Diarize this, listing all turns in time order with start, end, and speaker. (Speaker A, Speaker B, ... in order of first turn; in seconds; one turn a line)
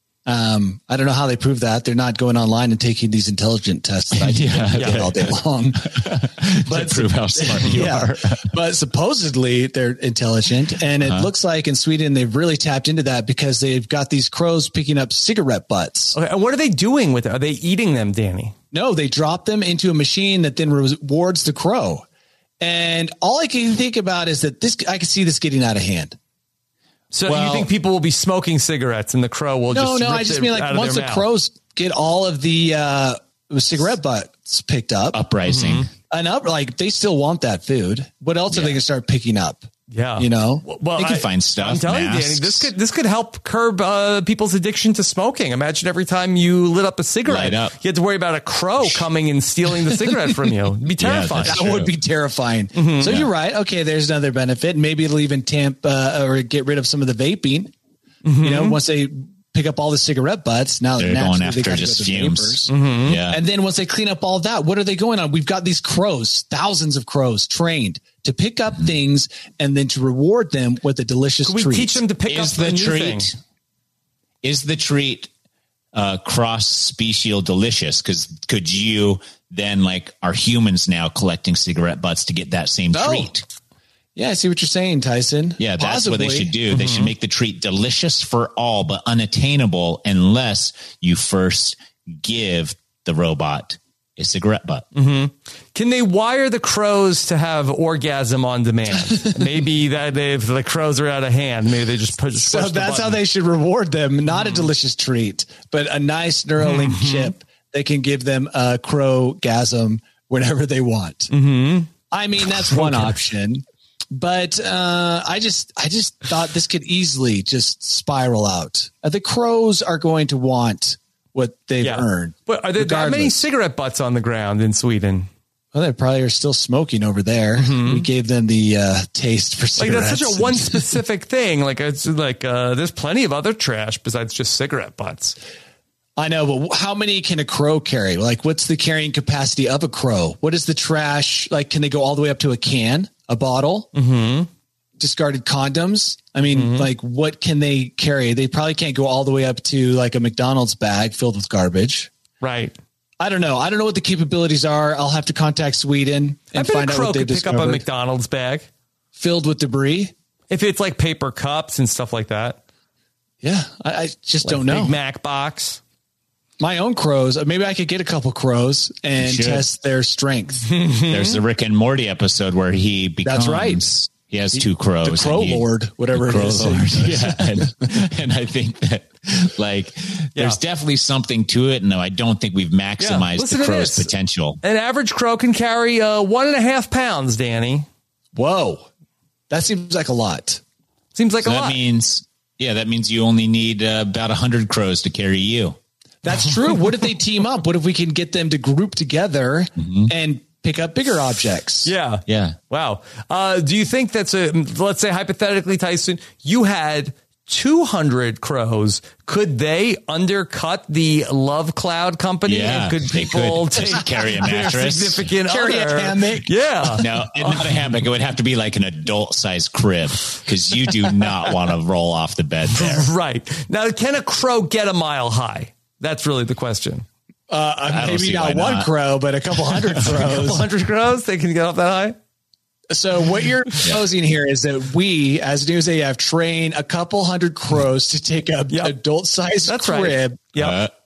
Speaker A: 0.2-5.9
Speaker B: 4.1-8.5
Speaker C: 4.7-5.0
Speaker A: 6.7-16.2
Speaker C: 7.6-7.9
Speaker B: 11.0-11.3
Speaker C: 16.1-18.5
Speaker A: 18.7-22.0
Speaker A: 22.6-26.1
Speaker C: 27.1-31.3
Speaker B: 27.2-27.7
Speaker A: 29.7-35.2
Speaker B: 35.1-35.9
Speaker C: 35.5-35.9
Speaker A: 36.1-39.7
Speaker B: 38.5-38.8
Speaker C: 39.9-51.6
Speaker A: 40.2-40.6
Speaker B: 41.0-42.7
Speaker B: 47.2-47.7
Speaker B: 51.0-51.9
Speaker A: 51.4-57.7
Speaker C: 52.8-53.2
Speaker B: 53.0-53.3
Speaker C: 58.2-58.8
Speaker A: 58.4-62.7
Speaker B: 61.0-63.4
Speaker C: 62.7-63.2
Speaker A: 63.2-72.0
Speaker C: 71.4-73.3
Speaker B: 72.3-73.4
Speaker B: 74.4-75.3
Speaker B: 75.9-83.4
Speaker A: 82.9-83.3
Speaker A: 84.2-86.5
Speaker B: 85.6-94.8
Speaker C: 86.7-87.1
Speaker C: 94.9-103.2
Speaker A: 102.4-111.3
Speaker C: 104.3-104.7
Speaker C: 106.6-107.3
Speaker C: 111.3-111.9
Speaker A: 112.1-123.4
Speaker C: 112.7-113.1
Speaker C: 121.8-125.3
Speaker A: 125.7-130.9
Speaker C: 127.5-128.1
Speaker C: 129.8-135.3
Speaker A: 136.2-143.9
Speaker C: 143.9-144.5
Speaker A: 145.0-152.1
Speaker C: 146.5-146.9
Speaker C: 152.4-152.7
Speaker A: 153.2-157.8
Speaker C: 156.5-158.7
Speaker A: 159.2-160.1
Speaker C: 160.5-162.6
Speaker A: 163.4-164.9
Speaker C: 164.4-165.8
Speaker A: 166.6-170.7
Speaker B: 169.2-169.7
Speaker C: 170.7-171.4
Speaker B: 171.1-184.6
Speaker A: 173.2-173.8
Speaker A: 174.5-177.7
Speaker C: 183.0-184.1
Speaker C: 184.6-187.9
Speaker A: 188.3-188.9
Speaker A: 189.5-190.6
Speaker C: 191.1-191.8
Speaker B: 191.4-195.8
Speaker A: 196.2-201.9
Speaker B: 199.8-200.1
Speaker C: 201.8-217.8
Speaker B: 202.3-202.6
Speaker B: 212.4-215.3
Speaker A: 215.5-217.0
Speaker B: 217.0-223.1
Speaker C: 222.7-227.0
Speaker A: 227.5-230.7
Speaker B: 227.9-228.9
Speaker C: 230.0-232.2
Speaker A: 232.9-240.4
Speaker C: 239.7-240.8
Speaker B: 240.6-240.9